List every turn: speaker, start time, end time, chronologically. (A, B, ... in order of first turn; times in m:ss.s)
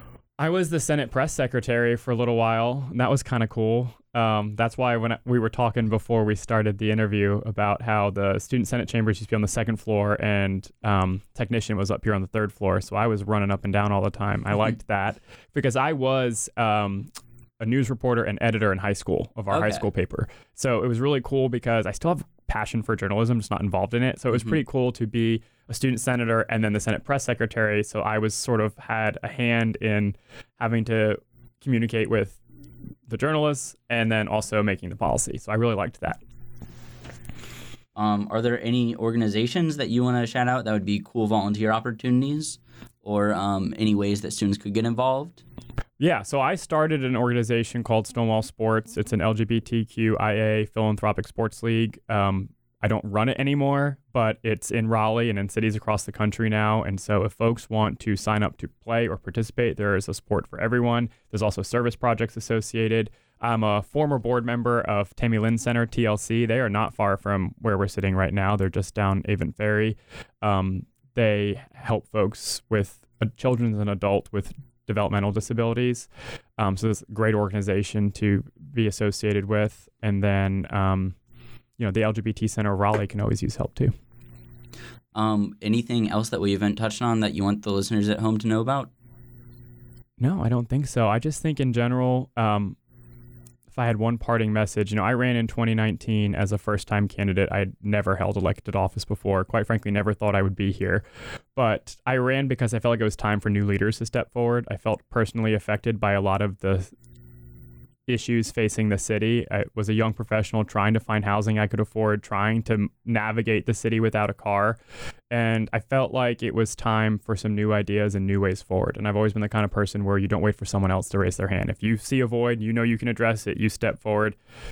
0:00.4-0:32.4 A
0:19.5-0:19.9 B
0:33.1-0:36.2 A
0:38.0-0:45.4 B
0:46.0-1:21.2 A
1:21.8-1:23.9 A
1:25.1-1:28.9 B
1:30.2-1:32.8 A
1:33.7-1:41.0 A
1:41.6-1:46.9 A
1:48.1-1:54.8 A
1:55.3-2:04.4 A